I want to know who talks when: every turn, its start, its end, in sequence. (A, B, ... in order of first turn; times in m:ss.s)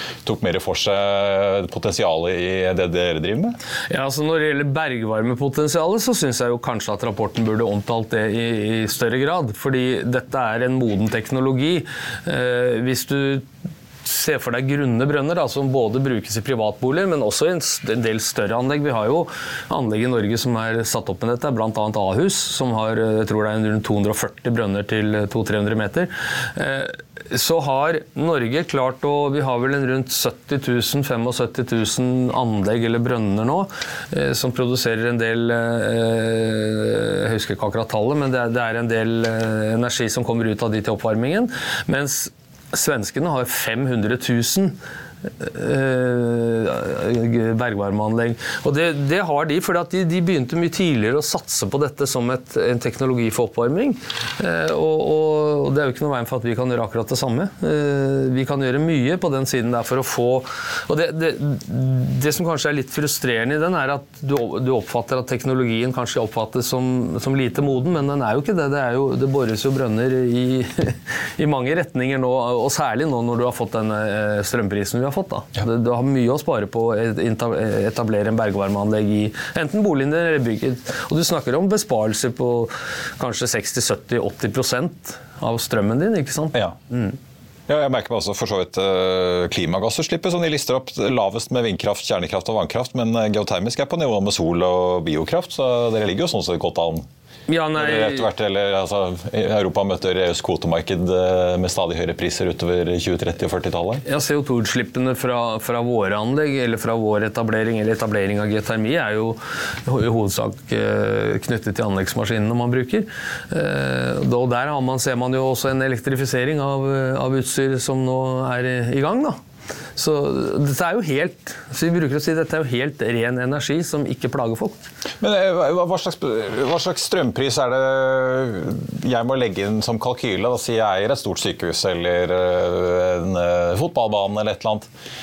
0:00.2-0:03.6 A
0:03.9-0:13.5 B
0:14.0-0:44.8 B
0:45.4-1:27.2 B
1:27.7-1:37.0 A
1:37.5-1:38.3 B
1:37.8-1:44.0 A
1:44.1-1:59.4 B
2:00.0-2:04.8 B
2:05.2-2:14.9 A